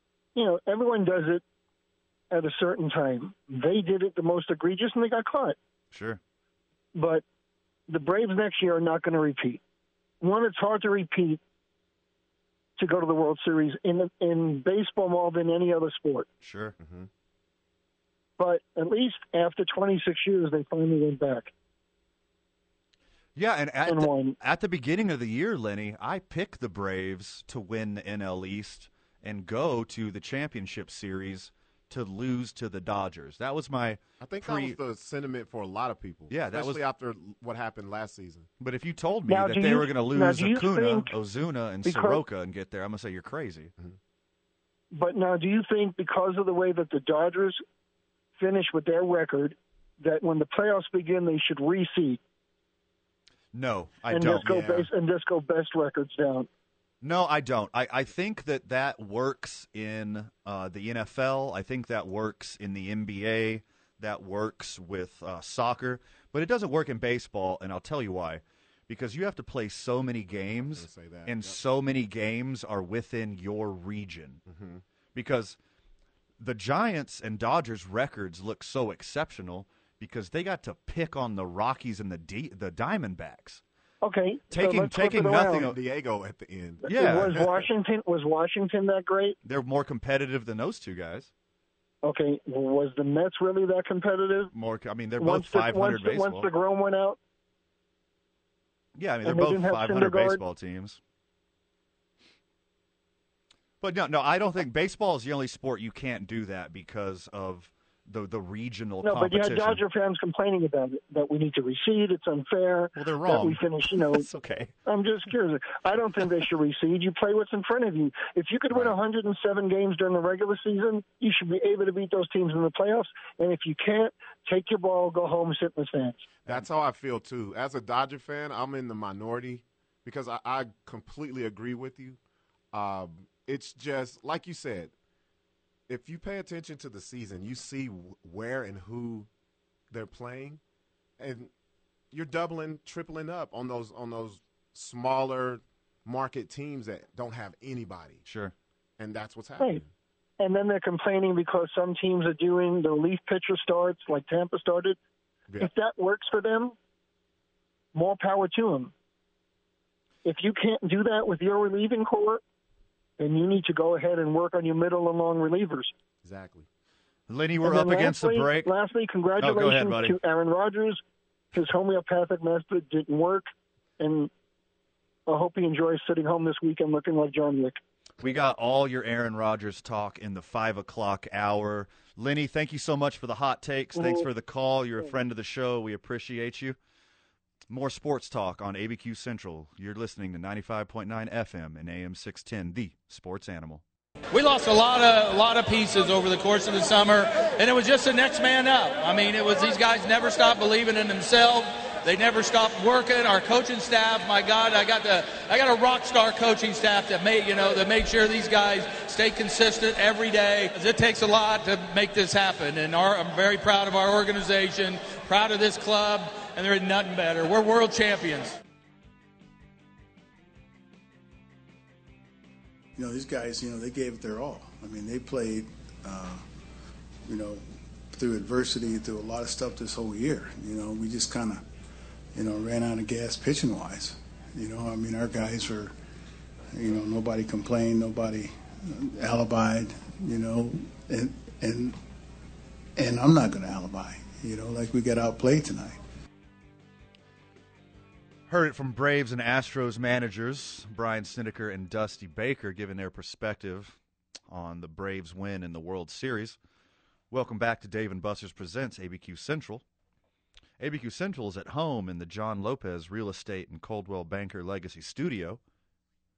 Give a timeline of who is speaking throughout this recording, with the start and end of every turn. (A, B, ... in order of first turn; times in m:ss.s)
0:00.4-0:01.4 A
0:02.3-0:05.6 A
0:05.9-0:06.2 B
0:07.0-0:07.2 A
0:07.9-0:09.6 A
0:10.2-0:11.4 A
0:12.8-0:16.3 A
0:16.4-0:16.8 B
0:16.8-0:17.1 C
0:18.4-0:21.5 A
0:23.4-0:34.8 B
0:23.9-0:24.4 A
0:34.2-0:38.5 C
0:36.3-0:36.8 B
0:38.6-0:43.7 B
0:39.3-0:41.1 A
0:41.8-0:42.2 A
0:44.9-0:47.6 A
0:48.4-0:52.2 A
0:53.5-0:54.9 B
0:54.1-0:56.5 A
0:57.0-1:14.4 B
1:10.8-1:11.6 C
1:14.5-1:14.8 C
1:15.2-1:15.6 B
1:16.4-1:23.6 B
1:24.0-1:25.7 A
1:24.5-1:25.8 B
1:25.4-1:27.6 C
1:26.9-1:29.4 A
1:26.9-1:27.5 B
1:29.4-1:31.3 B
1:32.0-1:34.5 A
1:34.5-1:36.5 B
1:35.2-1:37.2 A
1:39.0-1:41.0 B
1:39.2-1:40.4 A
1:43.8-1:49.8 B
1:49.0-1:54.3 A
1:53.0-1:54.7 B
1:54.9-2:06.3 A
2:06.5-2:12.2 C
2:12.7-2:14.9 C
2:15.9-2:19.3 C
2:19.9-2:20.6 C
2:21.2-2:21.5 C
2:22.1-2:28.2 C
2:28.3-2:28.5 B
2:29.0-2:29.9 C
2:30.4-2:35.0 A
2:35.6-2:36.8 A
2:37.9-2:38.9 A
2:40.2-2:42.4 A
2:43.2-2:45.9 A
2:46.2-2:46.7 C
2:47.3-2:48.7 B
2:47.6-2:51.0 A
2:49.4-2:50.2 B
2:51.5-2:53.5 A
2:54.0-2:54.3 A
2:55.3-2:57.8 A
2:58.2-3:06.8 B
3:04.0-3:04.3 A
3:07.7-3:13.8 B
3:14.3-3:38.6 D
3:43.0-3:46.4 E
3:47.3-3:51.6 E
3:52.3-3:55.9 E
3:56.7-4:02.0 E
4:03.0-4:06.0 E
4:08.5-4:14.0 B
4:14.5-4:16.6 B
4:17.3-4:19.8 B
4:20.8-4:25.6 B